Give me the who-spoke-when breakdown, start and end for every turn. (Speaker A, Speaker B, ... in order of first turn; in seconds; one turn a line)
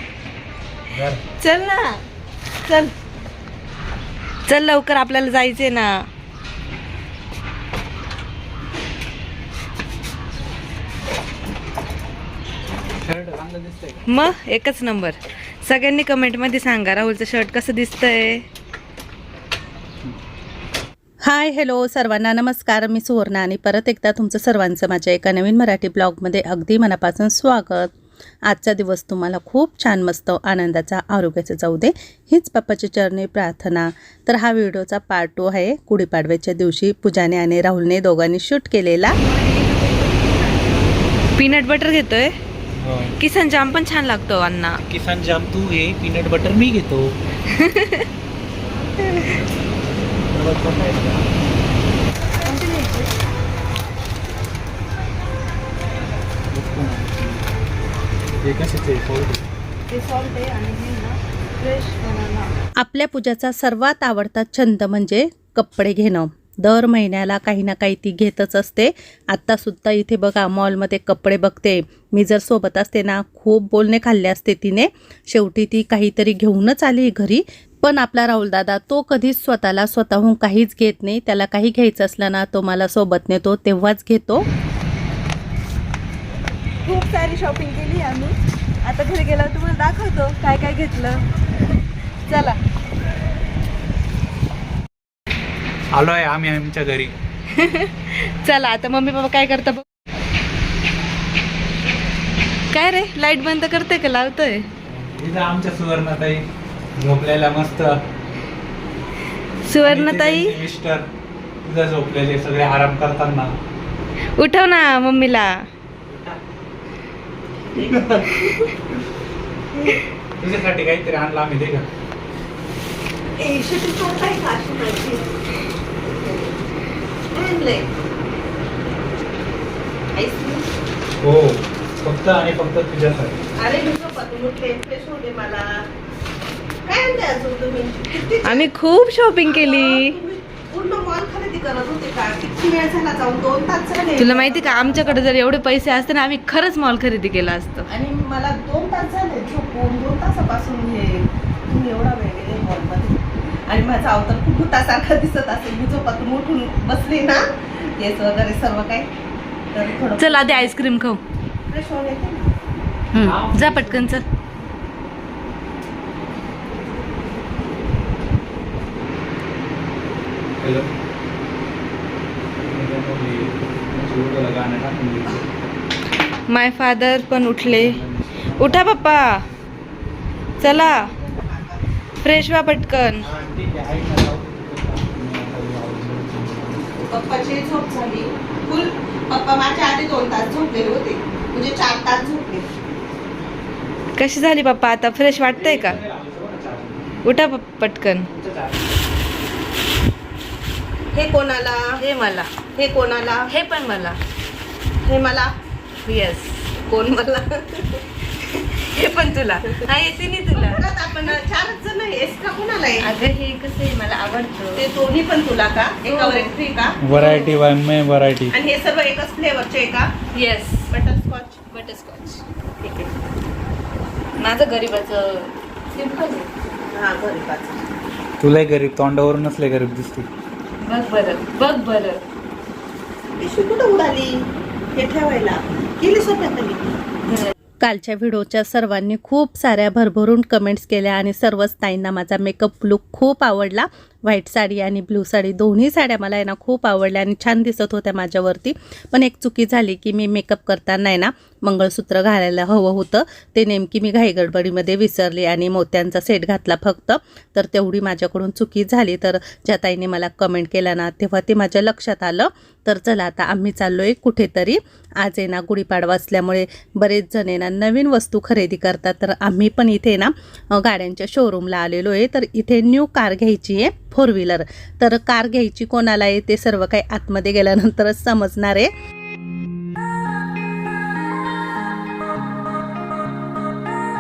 Speaker A: 0.9-1.2
Speaker B: 1.4-2.0
Speaker B: 4.5-6.1
Speaker A: 13.0-14.0
Speaker B: 14.1-18.4
Speaker C: 21.2-27.9
Speaker C: 28.4-39.2
Speaker B: 41.4-42.4
Speaker A: 42.8-43.1
Speaker B: 43.2-44.8
Speaker A: 44.9-47.1
Speaker B: 47.5-48.0
Speaker A: 50.3-51.3
Speaker B: 52.4-53.1
Speaker A: 56.5-57.4
Speaker A: 58.4-59.4
Speaker B: 59.9-62.5
Speaker C: 62.8-84.5
Speaker B: 86.8-91.2
Speaker B: 92.2-92.6
Speaker A: 95.9-97.1
Speaker B: 97.5-99.8
Speaker B: 102.7-104.7
Speaker A: 104.8-106.4
Speaker A: 107.0-108.0
Speaker B: 109.6-110.6
Speaker A: 109.8-111.0
Speaker A: 111.6-113.5
Speaker B: 114.4-115.7
Speaker A: 116.1-116.4
Speaker A: 117.7-118.6
Speaker A: 120.4-121.9
Speaker C: 123.4-125.3
Speaker C: 126.2-126.5
Speaker C: 127.3-127.8
Speaker C: 130.1-130.6
Speaker A: 131.2-133.4
Speaker C: 133.6-135.8
Speaker C: 136.8-138.6
Speaker B: 138.4-140.2
Speaker C: 139.5-145.2
Speaker B: 144.2-147.9
Speaker C: 147.9-159.1
Speaker C: 159.7-160.8
Speaker B: 160.1-161.2
Speaker C: 161.7-162.5
Speaker B: 163.1-164.2
Speaker A: 163.2-164.2
Speaker A: 170.6-170.9
Speaker A: 172.6-175.5
Speaker B: 176.5-178.0
Speaker A: 177.6-179.3
Speaker B: 178.6-179.4
Speaker B: 180.6-181.1
Speaker C: 181.0-181.7
Speaker B: 182.2-183.3
Speaker A: 183.2-186.9
Speaker C: 187.0-192.7
Speaker B: 194.2-196.0
Speaker A: 195.5-197.1
Speaker B: 197.2-198.3
Speaker A: 198.3-199.0
Speaker C: 201.1-202.0
Speaker B: 202.0-202.6
Speaker C: 202.8-203.5
Speaker B: 203.5-204.2
Speaker C: 205.0-205.5
Speaker B: 206.0-206.8
Speaker C: 207.2-207.8
Speaker B: 208.4-211.3
Speaker C: 210.5-213.1
Speaker B: 213.0-214.9
Speaker C: 214.8-216.9
Speaker B: 216.0-216.5
Speaker A: 217.0-218.5
Speaker B: 217.1-217.6
Speaker C: 218.5-220.1
Speaker B: 220.3-220.9
Speaker C: 220.9-221.6
Speaker B: 221.7-222.4
Speaker C: 222.8-223.1
Speaker B: 224.4-226.5
Speaker C: 226.9-227.8
Speaker A: 228.4-230.3
Speaker B: 230.8-232.2
Speaker C: 233.4-234.4
Speaker C: 235.0-236.8
Speaker C: 237.8-278.9